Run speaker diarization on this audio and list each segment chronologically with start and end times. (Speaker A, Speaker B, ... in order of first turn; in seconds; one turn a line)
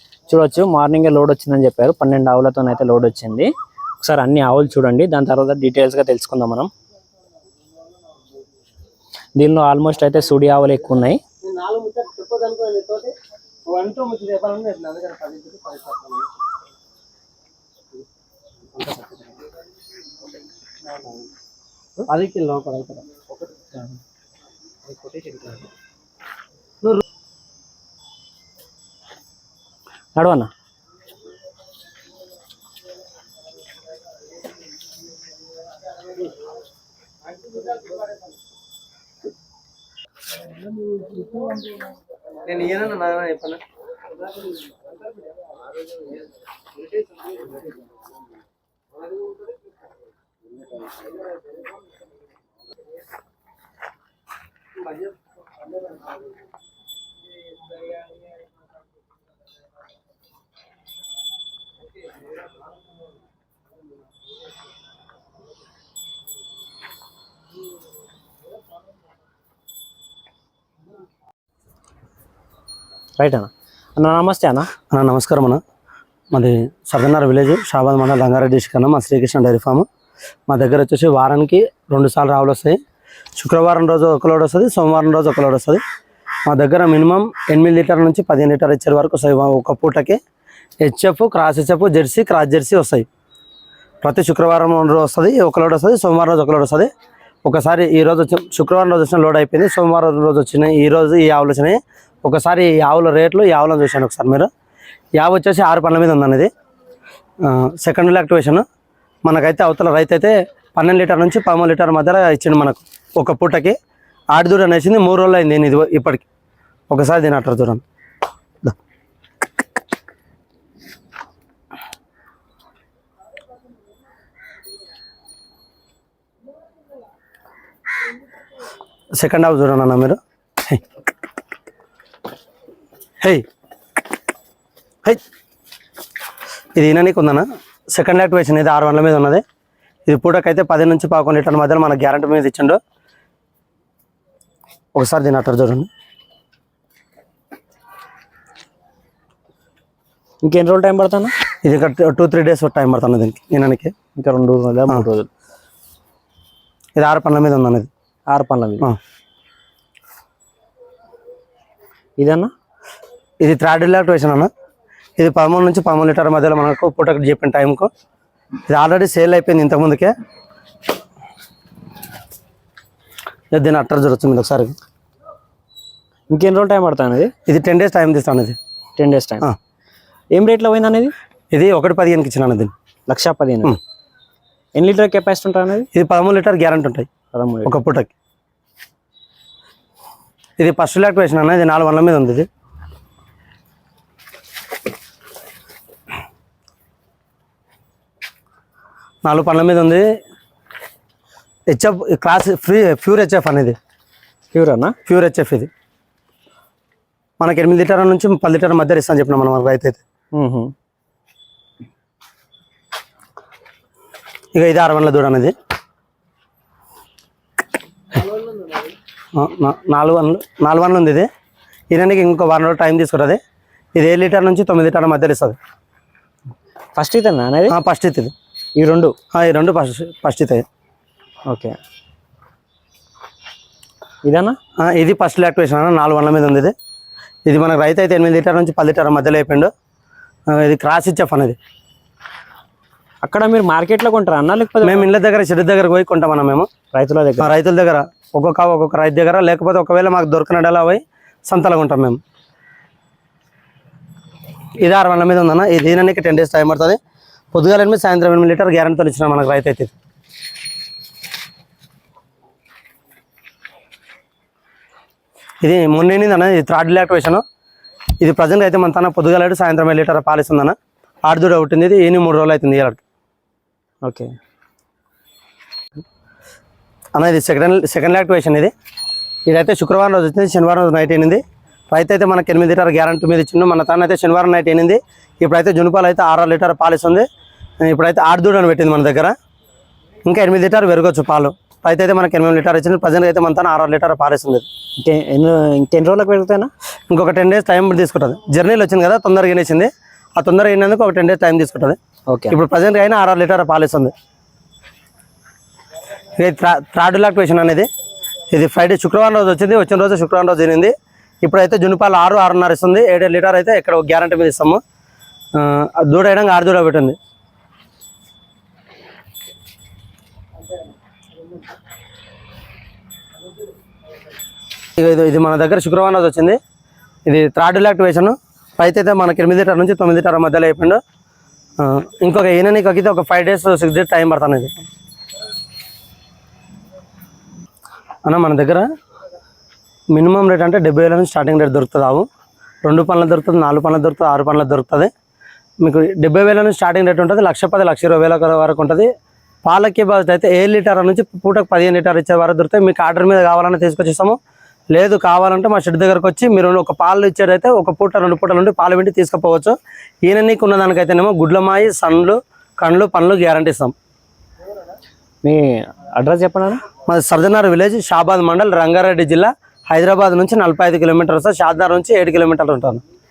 Speaker A: 0.3-6.7
Speaker A: 9.4-11.2
Speaker B: 11.4-13.1
Speaker B: 13.7-16.3
Speaker B: 18.8-19.3
Speaker B: 22.1-23.1
Speaker A: 30.2-30.5
Speaker B: 42.5-43.6
Speaker A: 73.2-74.7
Speaker B: 74.9-75.6
Speaker B: 76.3-79.9
Speaker B: 80.5-82.8
Speaker B: 83.4-85.8
Speaker B: 86.5-90.2
Speaker B: 90.8-93.1
Speaker B: 94.0-96.9
Speaker B: 97.5-104.5
Speaker B: 105.2-106.5
Speaker B: 107.4-108.6
Speaker B: 109.2-113.8
Speaker B: 114.3-116.2
Speaker B: 116.9-117.8
Speaker B: 129.2-130.8
Speaker B: 136.8-139.4
Speaker B: 140.1-142.8
Speaker B: 144.9-145.9
Speaker A: 150.4-151.3
Speaker B: 151.6-153.9
Speaker A: 154.2-155.3
Speaker B: 156.9-157.9
Speaker A: 158.3-158.9
Speaker A: 162.2-162.5
Speaker B: 163.4-164.5
Speaker B: 165.2-167.9
Speaker B: 168.7-170.1
Speaker B: 173.5-174.8
Speaker A: 176.3-177.3
Speaker B: 177.5-178.6
Speaker A: 179.0-179.5
Speaker A: 180.3-181.1
Speaker B: 181.5-182.7
Speaker A: 183.1-183.8
Speaker A: 184.8-185.9
Speaker B: 185.9-187.1
Speaker A: 187.3-187.8
Speaker B: 187.7-188.1
Speaker B: 190.6-192.5
Speaker B: 199.2-200.1
Speaker B: 201.7-203.8
Speaker A: 204.5-204.9
Speaker B: 205.1-205.7
Speaker B: 207.4-210.0
Speaker A: 210.4-210.7
Speaker B: 214.5-215.5
Speaker B: 219.3-221.3
Speaker B: 221.9-223.4
Speaker B: 223.9-225.6
Speaker A: 227.0-227.8
Speaker B: 227.7-228.3
Speaker A: 228.8-229.1
Speaker B: 229.3-230.7
Speaker A: 231.5-231.8
Speaker A: 234.2-234.6
Speaker B: 234.8-236.7
Speaker B: 237.5-239.7
Speaker B: 240.5-241.6
Speaker A: 243.2-245.1
Speaker B: 244.8-246.7
Speaker A: 246.9-247.5
Speaker B: 247.4-252.2
Speaker B: 254.8-257.0
Speaker B: 257.5-259.9
Speaker B: 265.6-267.4
Speaker B: 268.2-273.0
Speaker A: 274.1-274.3
Speaker B: 277.1-278.7
Speaker B: 279.5-287.3
Speaker B: 287.8-289.4
Speaker B: 290.2-294.7
Speaker A: 295.1-296.7
Speaker B: 297.1-302.0
Speaker A: 302.3-302.6
Speaker B: 302.5-304.1
Speaker B: 306.4-307.9
Speaker B: 308.5-314.8
Speaker B: 315.6-317.2
Speaker B: 325.0-326.6
Speaker B: 327.3-331.0
Speaker B: 331.8-334.8
Speaker B: 338.3-338.9
Speaker B: 340.1-342.3
Speaker B: 342.8-345.1
Speaker B: 345.8-349.1
Speaker B: 349.6-354.4
Speaker B: 354.9-359.8
Speaker B: 360.3-363.9
Speaker A: 365.4-366.8
Speaker B: 367.1-373.0